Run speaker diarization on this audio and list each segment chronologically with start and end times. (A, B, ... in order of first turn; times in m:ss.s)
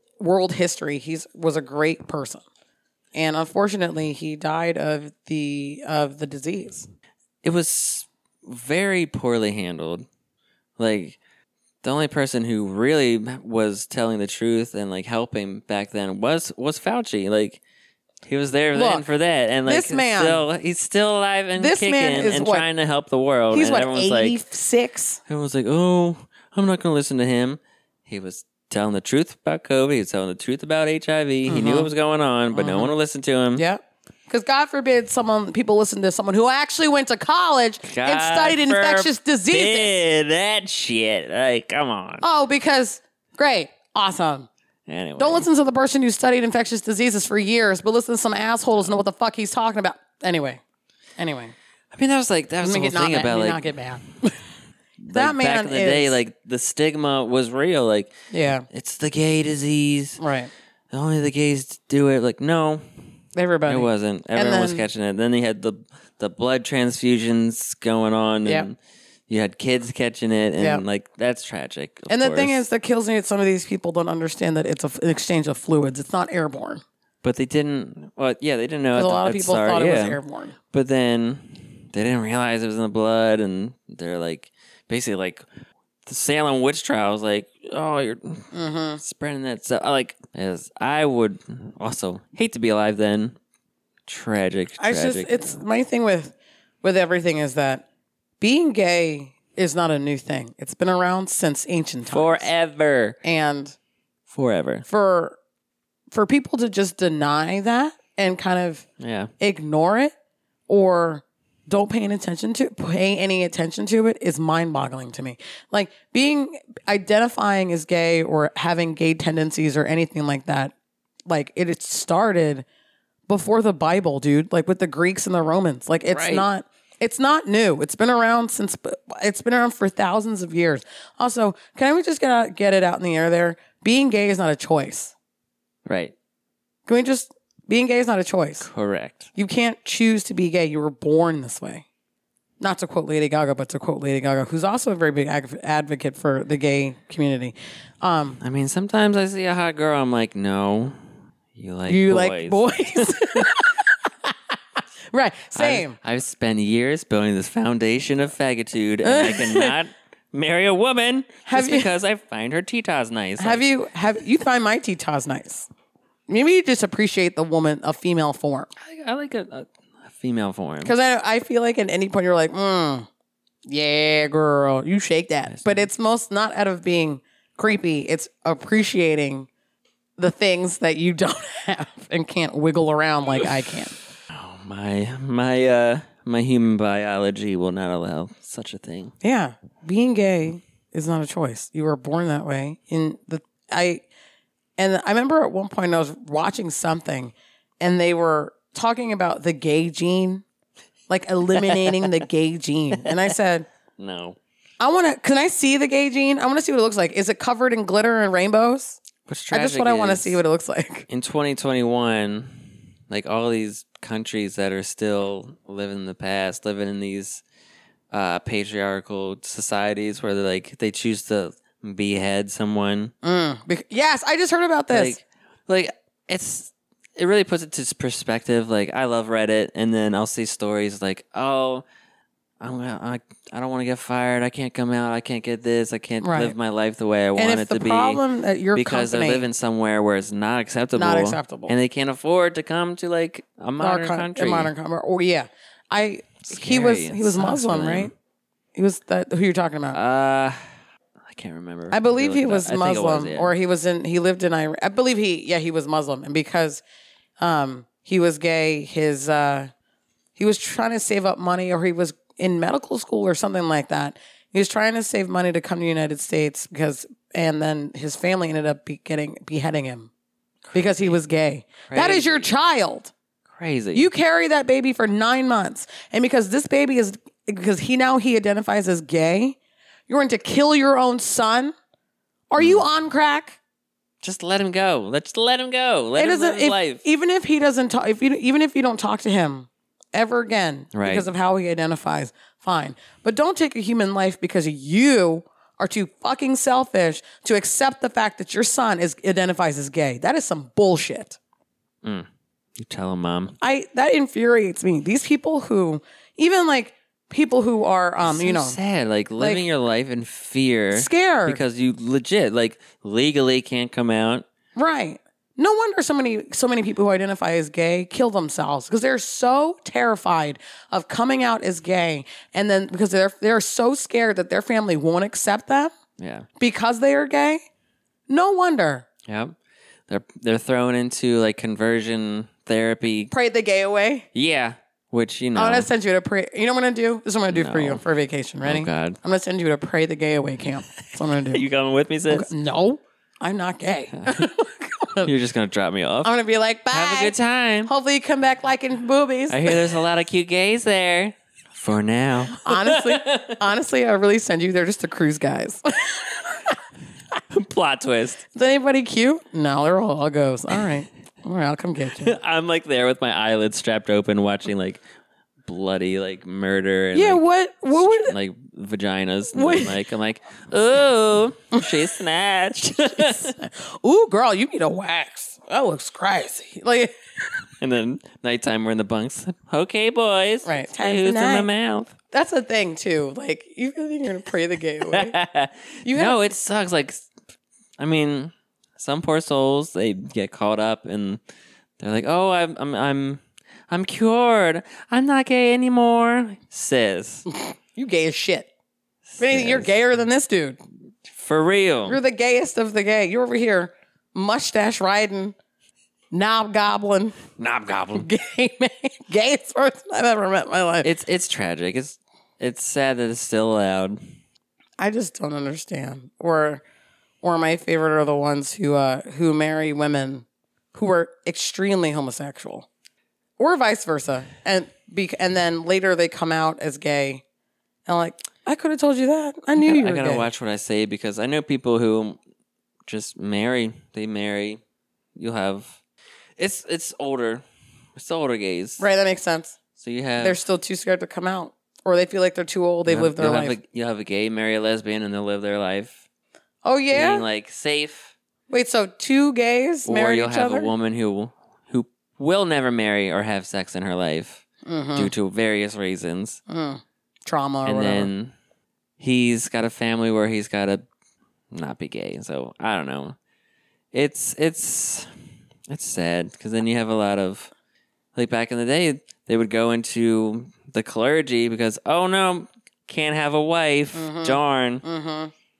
0:00.2-0:02.4 A
0:03.1-0:06.8 A
0:07.4-0:10.0 B
0:10.8-0:11.2 B
0:11.8-0:17.6 B
0:18.2-0:24.4 B
0:18.7-0:19.1 A
0:19.6-0:20.4 A
0:21.6-0:22.7 A
0:23.5-0:25.2 A
0:25.3-0:33.6 B
0:31.4-0:31.9 A
0:32.5-0:32.9 A
0:33.6-0:40.0 A
0:37.8-0:42.2 B
0:42.2-0:44.5 A
0:44.9-0:45.4 B
0:45.2-0:50.6 A
0:51.2-0:51.5 A
0:51.9-0:53.7 B
0:52.6-0:54.4 A
0:55.0-0:58.1 B
0:55.1-0:56.2 A
0:58.3-0:58.6 A
0:58.7-1:00.2 B
1:00.2-1:00.5 A
1:00.9-1:02.8 B
1:03.3-1:04.8 A
1:03.7-1:08.8 B
1:09.3-1:12.6 B
1:10.6-1:10.8 A
1:12.1-1:16.8 A
1:17.2-1:20.2 B
1:18.9-1:20.6 A
1:20.7-1:25.4 B
1:26.0-1:33.4 B
1:28.5-1:29.0 A
1:34.1-1:35.6 B
1:34.8-1:37.8 A
1:38.4-1:42.5 A
1:42.1-1:43.2 B
1:43.2-1:43.8 A
1:44.3-1:44.8 B
1:44.9-1:45.4 A
1:46.1-1:48.8 A
1:49.0-1:49.3 B
1:49.4-1:50.1 A
1:50.7-2:00.7 A
2:01.3-2:02.6 A
2:03.3-2:15.1 A
2:06.1-2:06.5 B
2:15.8-2:16.1 B
2:16.9-2:18.7 A
2:18.6-2:19.3 B
2:19.3-2:21.8 A
2:22.6-2:28.4 A
2:28.4-2:31.0 B
2:31.6-2:33.5 B
2:31.9-2:36.0 A
2:35.5-2:43.6 B
2:39.0-2:39.7 A
2:41.5-2:41.9 A
2:43.4-2:45.7 A
2:46.3-2:48.7 A
2:48.8-2:50.9 B
2:50.8-2:53.1 A
2:53.6-2:59.5 A
2:55.5-2:55.8 B
3:00.2-3:04.0 A
3:04.3-3:09.1 B
3:09.2-3:14.0 A
3:14.8-3:20.4 A
3:21.1-3:23.6 A
3:21.6-3:22.1 B
3:24.0-3:24.4 B
3:24.8-3:29.0 A
3:29.3-3:30.4 B
3:29.5-3:31.1 A
3:31.1-3:37.4 B
3:38.1-3:43.1 B
3:43.2-3:45.2 A
3:44.9-3:51.8 B
3:52.6-3:58.2 B
3:56.2-3:56.6 A
3:57.4-3:59.4 A
3:58.7-4:04.7 B
4:01.0-4:01.7 A
4:03.8-4:08.1 A
4:06.4-4:08.1 B
4:08.7-4:10.0 A
4:09.9-4:10.6 B
4:11.3-4:13.5 B
4:11.9-4:16.8 A
4:17.4-4:19.7 A
4:20.4-4:30.1 A
4:30.7-4:31.2 B
4:30.7-4:33.1 A
4:31.9-4:32.5 B
4:33.5-4:34.1 B
4:33.9-4:39.6 A
4:40.1-4:41.7 A
4:42.5-4:43.6 A
4:42.6-4:42.8 B
4:44.2-4:47.0 B
4:46.2-5:01.4 A
4:50.9-4:51.3 B
5:02.0-5:03.6 B
5:03.6-5:08.8 A
5:08.2-5:14.4 B
5:09.4-5:09.6 A
5:10.9-5:11.6 A
5:14.7-5:25.9 A
5:26.2-5:26.5 B
5:26.6-5:27.6 A
5:28.3-5:29.0 A
5:29.3-5:29.6 B
5:30.1-5:33.3 B
5:33.3-5:34.3 A
5:34.3-5:35.9 B
5:35.6-5:41.6 A
5:37.5-5:38.0 B
5:38.6-5:39.2 B
5:41.0-5:42.5 B
5:42.3-5:45.3 A
5:44.1-5:44.4 B
5:45.2-5:46.3 B
5:46.2-5:50.0 A
5:46.9-5:47.9 B
5:49.5-5:53.6 B
5:52.5-5:56.8 A
5:57.5-5:58.4 B
5:58.5-6:02.4 A
6:02.2-6:05.0 B
6:05.6-6:13.6 B
6:07.1-6:08.3 A
6:09.5-6:10.0 A
6:11.7-6:12.0 A
6:13.1-6:17.2 A
6:17.8-6:22.1 B
6:20.6-6:21.7 A
6:22.3-6:25.3 A
6:25.1-6:27.3 B
6:26.0-6:26.4 A
6:28.0-6:31.4 B
6:32.0-6:37.5 B
6:37.5-6:38.7 A
6:39.3-6:39.9 B
6:39.4-6:40.8 A
6:41.3-6:42.2 B
6:42.0-6:45.5 A
6:46.3-6:47.4 A
6:47.6-6:48.3 B
6:48.1-6:51.1 A
6:51.0-6:54.2 B
6:55.0-6:56.8 A
6:57.4-7:02.9 A
7:03.6-7:07.4 A
7:08.0-7:10.5 A
7:09.8-7:12.4 B
7:13.1-7:14.8 B
7:15.4-7:16.0 B
7:16.6-7:17.6 B
7:18.2-7:19.0 B
7:19.0-7:19.8 A
7:20.0-7:20.6 B
7:20.4-7:23.8 A
7:23.0-7:26.2 B
7:26.8-7:27.4 A
7:27.1-7:28.3 B
7:28.7-7:30.9 A
7:30.0-7:34.6 B
7:34.8-7:35.3 A
7:35.2-7:36.6 B
7:36.7-7:38.3 A
7:37.8-7:38.5 B
7:39.2-7:41.0 B
7:41.7-7:43.4 B
7:44.1-7:45.3 B
7:45.9-7:47.7 B
7:48.3-7:55.0 B
7:54.1-7:55.5 A